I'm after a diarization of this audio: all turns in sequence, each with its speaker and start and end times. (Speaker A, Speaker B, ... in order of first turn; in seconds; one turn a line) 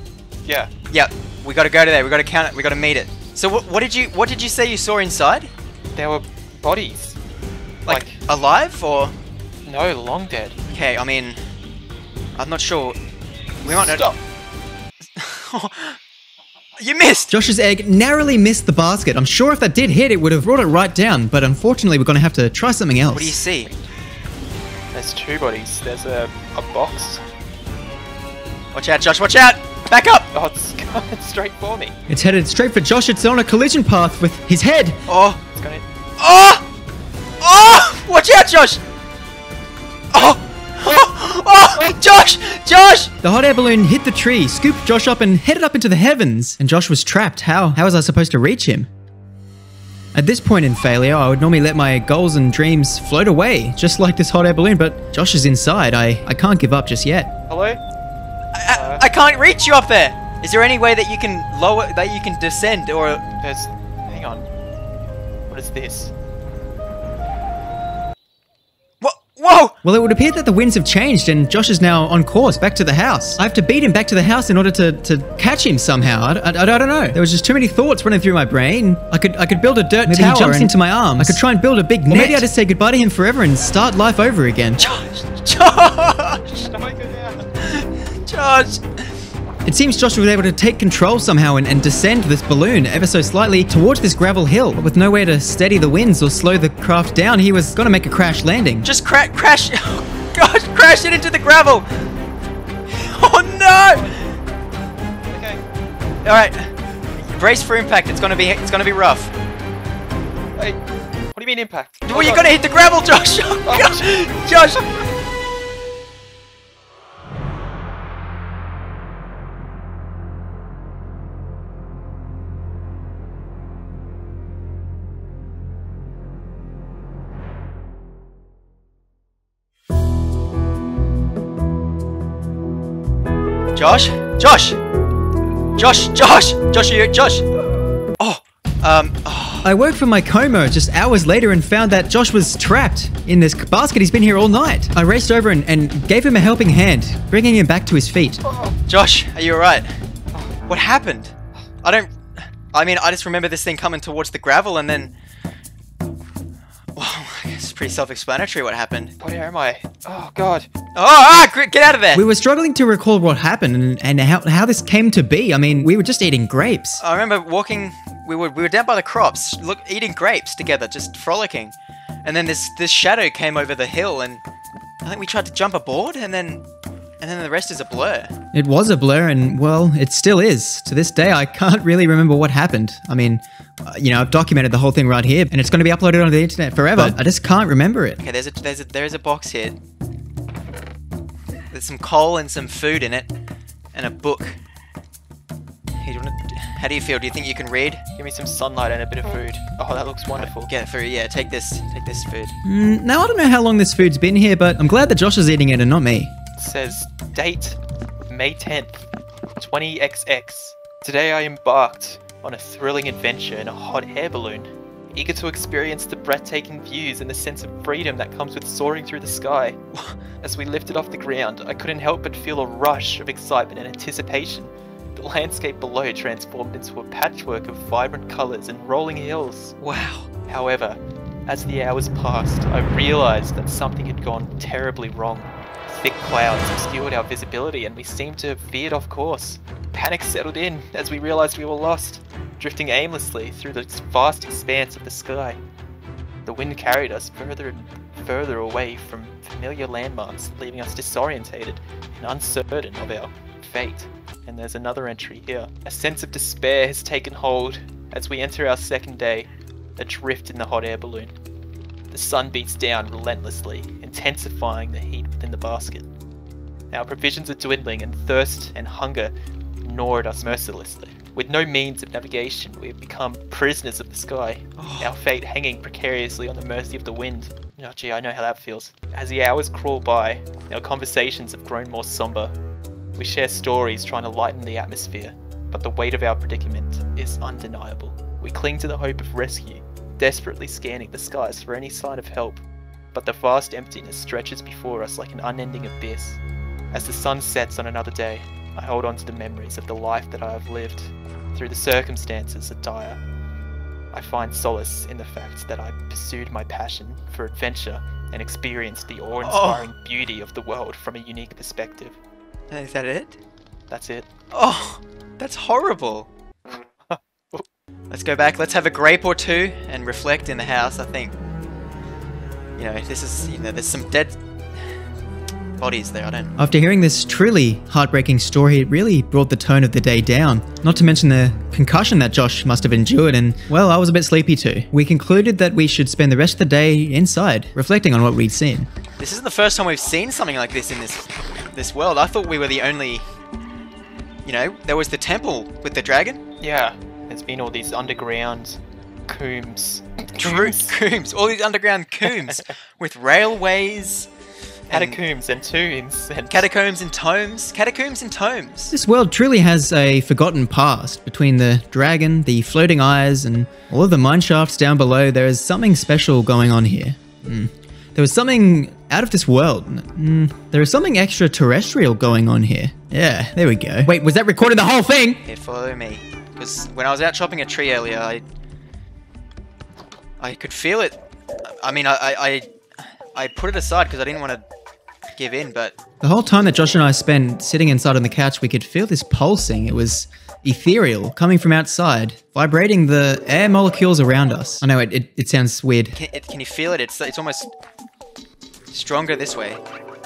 Speaker A: 0.5-0.7
Speaker B: 0.9-5.5
Speaker A: 6.0-7.2
Speaker B: 7.9-9.2
Speaker A: 7.9-8.2
Speaker A: 9.7-10.6
Speaker B: 10.7-11.4
Speaker B: 12.4-13.0
Speaker B: 13.6-14.1
Speaker A: 13.7-14.2
Speaker B: 15.2-16.0
Speaker B: 16.8-17.3
Speaker C: 17.3-23.4
Speaker B: 23.1-23.7
Speaker A: 24.9-27.2
Speaker B: 28.7-30.3
Speaker A: 30.3-31.9
Speaker C: 32.1-35.0
Speaker B: 35.1-35.4
Speaker A: 35.5-35.9
Speaker B: 36.2-36.6
Speaker B: 37.4-38.8
Speaker B: 40.1-43.1
Speaker C: 43.2-48.9
Speaker C: 50.1-57.3
Speaker A: 57.5-57.8
Speaker B: 58.6-63.2
Speaker A: 58.7-59.1
Speaker A: 63.4-64.5
Speaker A: 65.5-66.1
Speaker B: 69.0-69.8
Speaker C: 69.8-85.0
Speaker B: 79.8-81.4
Speaker B: 82.1-82.5
Speaker A: 84.8-85.4
Speaker B: 85.4-86.4
Speaker A: 86.5-87.5
Speaker B: 88.3-88.8
Speaker C: 89.7-98.9
Speaker B: 98.8-101.9
Speaker B: 102.9-104.1
Speaker A: 103.9-104.2
Speaker A: 105.3-105.6
Speaker B: 106.2-106.7
Speaker B: 107.2-109.3
Speaker A: 110.5-110.8
Speaker A: 111.3-112.6
Speaker B: 112.1-114.8
Speaker A: 113.6-114.4
Speaker B: 133.8-134.8
Speaker B: 135.8-137.4
Speaker B: 138.2-139.7
Speaker C: 139.6-148.4
Speaker A: 148.4-148.8
Speaker B: 148.9-149.8
Speaker B: 150.7-151.3
Speaker B: 151.8-152.1
Speaker B: 152.7-155.1
Speaker B: 157.0-159.1
Speaker A: 159.2-160.7
Speaker B: 160.9-162.3
Speaker C: 162.1-167.0
Speaker B: 167.0-174.4
Speaker B: 175.0-176.6
Speaker B: 177.2-178.4
Speaker C: 178.5-188.2
Speaker B: 188.2-189.8
Speaker B: 191.7-193.3
Speaker B: 193.9-194.6
Speaker B: 196.0-198.0
Speaker A: 198.2-200.7
Speaker B: 200.4-202.6
Speaker C: 202.6-206.3
Speaker A: 206.6-207.8
Speaker A: 208.3-209.0
Speaker A: 209.6-219.8
Speaker A: 220.4-229.8
Speaker B: 229.8-230.2
Speaker A: 230.5-245.6
Speaker A: 246.4-261.3
Speaker A: 262.1-266.1
Speaker A: 266.9-282.5
Speaker B: 274.8-275.1
Speaker A: 283.2-296.4
Speaker A: 296.9-303.2
Speaker A: 304.1-312.2
Speaker B: 309.4-309.9
Speaker B: 312.7-313.4
Speaker A: 313.9-314.3
Speaker B: 314.5-316.3
Speaker A: 316.7-317.6
Speaker B: 318.1-321.3
Speaker B: 322.8-324.4
Speaker B: 325.8-326.6
Speaker C: 326.6-338.9
Speaker B: 339.2-343.2
Speaker B: 344.4-346.4
Speaker A: 346.6-351.0
Speaker B: 350.4-354.3
Speaker C: 350.5-350.9
Speaker A: 352.3-352.7
Speaker A: 354.9-356.7
Speaker B: 354.9-355.2
Speaker B: 356.5-358.9
Speaker C: 358.9-375.4
Speaker B: 375.4-378.4
Speaker B: 380.4-382.7
Speaker B: 383.4-384.6
Speaker B: 385.4-386.0
Speaker C: 386.2-396.2
Speaker B: 396.2-397.7
Speaker B: 398.9-399.8